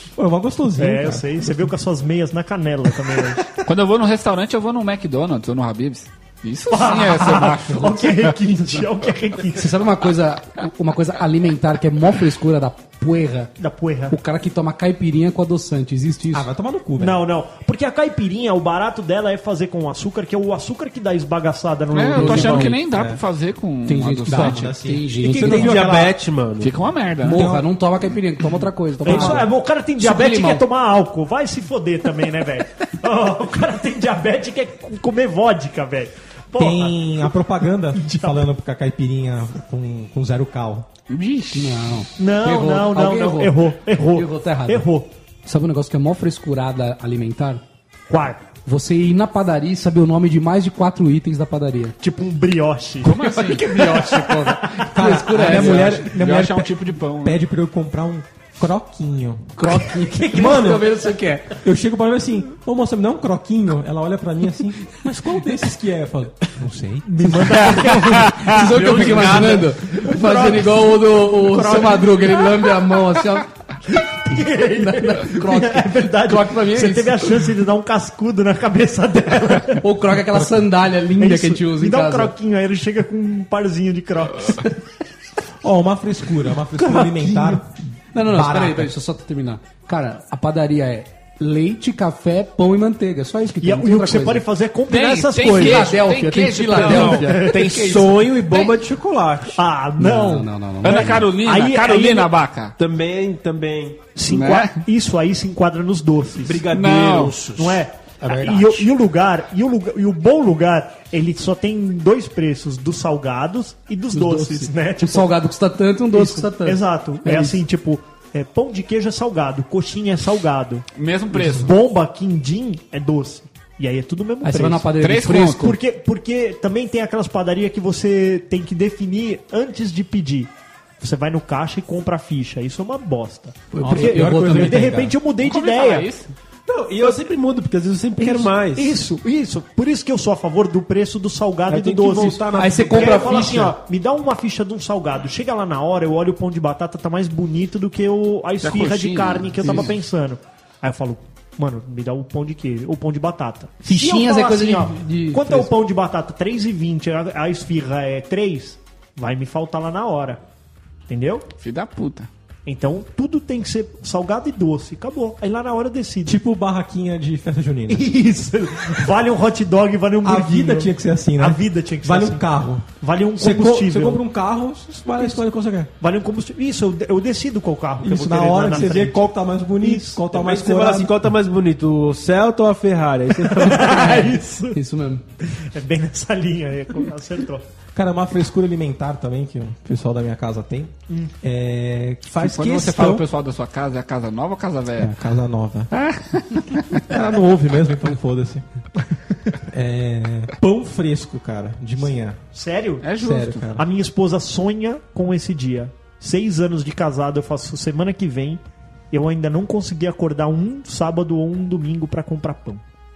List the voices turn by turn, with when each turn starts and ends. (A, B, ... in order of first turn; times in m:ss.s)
0:00.2-0:01.7 A
0:00.8-0:03.4 B
0:03.6-0:08.4 C
0:06.7-0:09.7 B
0:09.5-0:13.5 D
0:13.6-0:14.2 B
0:14.1-0:16.5 D
0:16.3-0:17.2 A
0:17.0-0:22.8 B
0:21.9-0:24.7 C
0:22.1-0:22.8 D
0:22.7-0:23.2 A
0:23.9-0:25.9 D
0:24.3-0:26.2 A
0:25.2-0:26.7 E
0:26.6-0:27.5 C
0:27.2-0:30.6 D
0:27.2-0:27.7 A
0:29.0-0:37.3 B
0:36.6-0:40.9 A
0:38.0-0:38.4 B
0:41.1-0:41.9 C
0:41.5-0:44.9 D
0:42.2-0:45.1 B
0:45.4-0:47.6 D
0:48.1-0:48.4 B
0:48.6-0:52.0 D
0:52.0-0:53.2 B
0:53.0-0:54.1 C
0:53.1-0:56.0 D
0:54.9-1:00.9 A
0:55.1-0:57.4 C
0:59.6-1:01.6 D
1:01.6-1:07.7 A
1:07.0-1:08.6 B
1:08.1-1:09.6 C
1:08.4-1:17.4 D
1:08.6-1:09.7 E
1:10.2-1:10.5 B
1:11.6-1:11.9 B
1:13.9-1:19.9 B
1:19.8-1:22.3 D
1:20.3-1:20.6 A
1:21.2-1:24.7 B
1:25.6-1:28.9 A
1:26.8-1:27.6 B
1:28.1-1:34.5 D
1:33.6-1:36.0 B
1:34.9-1:38.8 C
1:35.4-1:37.9 D
1:36.8-1:39.6 E
1:36.9-1:37.8 B
1:39.6-1:42.3 B
1:40.0-1:41.3 D
1:40.8-1:42.7 C
1:42.8-1:44.0 E
1:44.1-1:46.6 B
1:44.3-1:44.8 C
1:46.4-1:47.8 E
1:46.7-1:47.4 C
1:47.6-1:55.4 B
1:48.2-1:48.9 D
1:54.1-1:57.6 D
1:56.1-2:04.9 B
2:01.0-2:01.7 C
2:04.4-2:05.8 D
2:05.0-2:05.7 C
2:05.6-2:16.1 B
2:13.7-2:15.1 D
2:13.8-2:15.1 A
2:15.4-2:16.3 C
2:16.7-2:19.0 E
2:18.2-2:40.4 B
2:21.7-2:23.6 E
2:22.5-2:23.7 D
2:28.6-2:29.9 C
2:29.6-2:29.9 D
2:33.8-2:35.7 D
2:41.1-2:41.4 B
2:41.6-2:42.3 C
2:42.7-2:46.4 B
2:46.3-2:48.1 A
2:47.9-2:54.2 B
2:50.2-2:52.9 A
2:53.4-2:55.9 A
2:56.0-3:00.2 B
2:58.0-3:01.2 A
3:00.3-3:04.3 E
3:03.5-3:04.8 B
3:03.9-3:05.2 D
3:05.5-3:07.6 B
3:07.9-3:13.2 A
3:12.4-3:13.2 E
3:12.4-3:15.1 C
3:15.0-3:15.9 A
3:15.9-3:17.0 C
3:17.0-3:18.6 A
3:19.6-3:22.4 A
3:22.5-3:23.0 B
3:23.0-3:23.7 C
3:23.2-3:23.9 A
3:23.8-3:32.8 B